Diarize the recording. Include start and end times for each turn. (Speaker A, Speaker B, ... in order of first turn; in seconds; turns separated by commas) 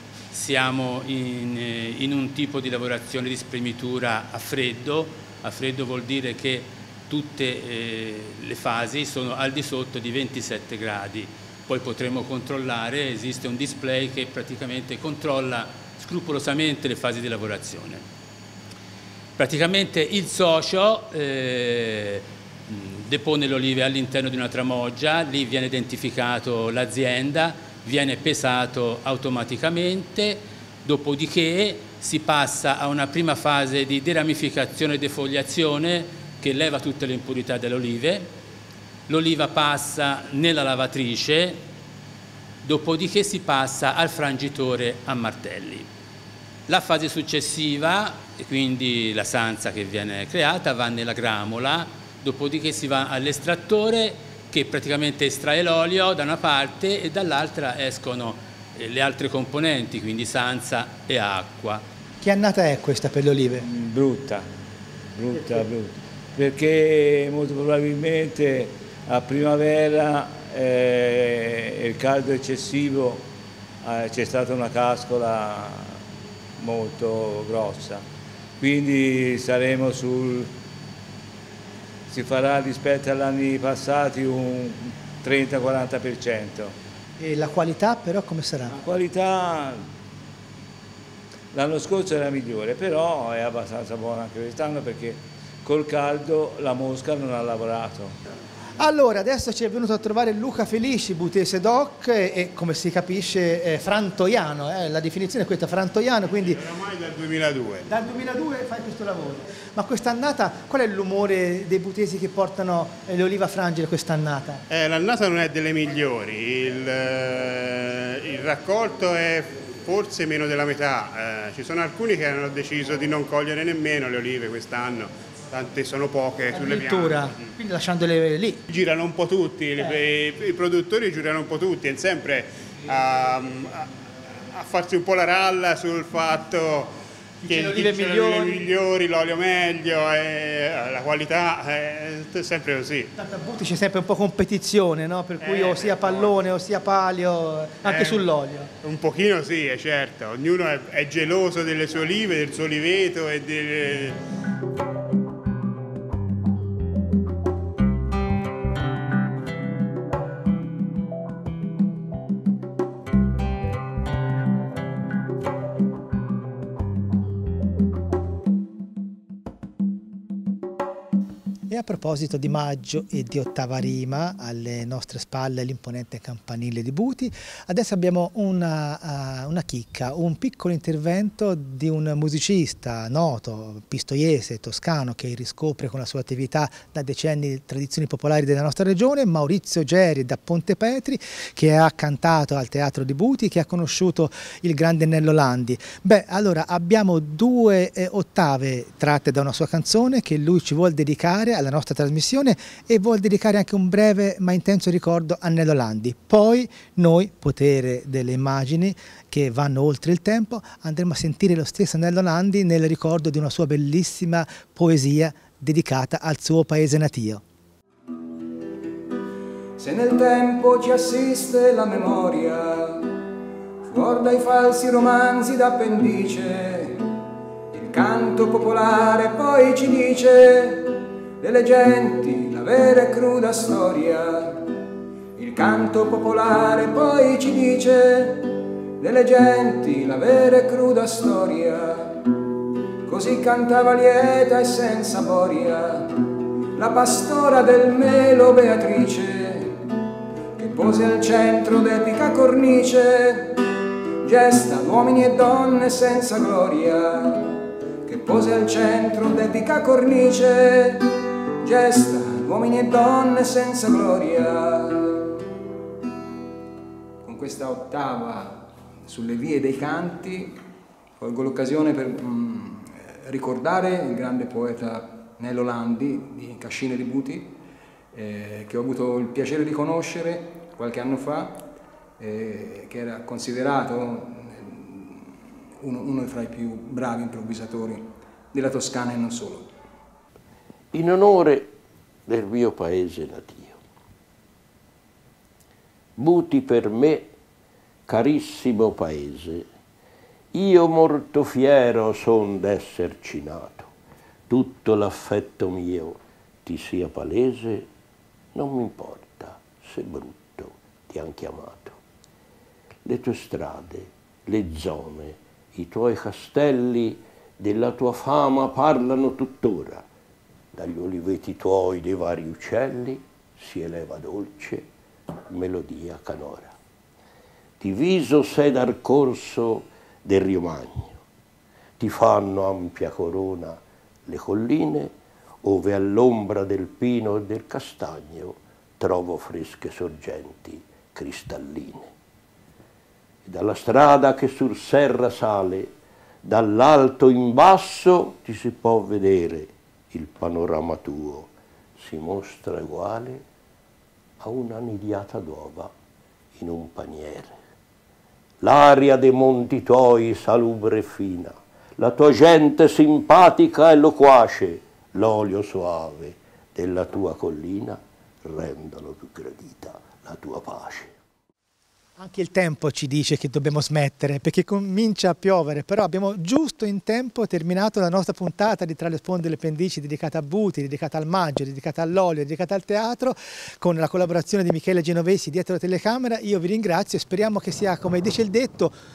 Speaker A: 0.3-18.0, Speaker A: 19.4-38.3, Speaker A: 39.1-41.6, Speaker A: 42.6-45.9, Speaker A: 46.7-61.8, Speaker B: 62.2-63.7, Speaker C: 63.6-64.5, Speaker C: 65.1-73.3, Speaker C: 73.8-76.0, Speaker C: 76.6-78.0, Speaker C: 78.6-80.5, Speaker C: 82.1-86.8, Speaker B: 87.2-88.8, Speaker C: 88.8-89.9, Speaker C: 91.5-98.2, Speaker B: 98.8-106.6, Speaker D: 106.4-107.9, Speaker B: 107.9-114.6, Speaker D: 114.7-127.5, Speaker B: 126.5-128.6, Speaker D: 128.7-133.9, Speaker D: 134.5-143.1, Speaker B: 137.4-138.7, Speaker B: 143.2-148.7, Speaker D: 145.4-146.3, Speaker D: 147.8-148.2, Speaker D: 148.8-154.2, Speaker B: 171.7-217.4, Speaker E: 219.8-223.1, Speaker E: 223.8-227.1, Speaker E: 227.7-234.7, Speaker E: 235.3-242.2, Speaker E: 243.0-246.2, Speaker E: 246.8-249.8, Speaker E: 250.6-253.6, Speaker E: 254.2-261.1, Speaker E: 261.6-265.3, Speaker E: 267.2-270.6, Speaker E: 271.2-277.6, Speaker E: 278.1-289.7, Speaker F: 290.9-291.7, Speaker F: 292.3-293.8, Speaker F: 296.2-297.3, Speaker F: 298.1-299.7, Speaker F: 300.5-303.9, Speaker F: 304.5-307.9, Speaker F: 308.5-312.0, Speaker F: 313.0-320.1, Speaker F: 320.7-324.9, Speaker F: 325.5-326.7, Speaker F: 327.8-331.2, Speaker F: 332.0-342.1, Speaker F: 343.4-345.9, Speaker F: 346.4-353.4, Speaker F: 354.4-355.9, Speaker F: 356.6-357.6, Speaker F: 358.6-371.1, Speaker B: 372.2-389.0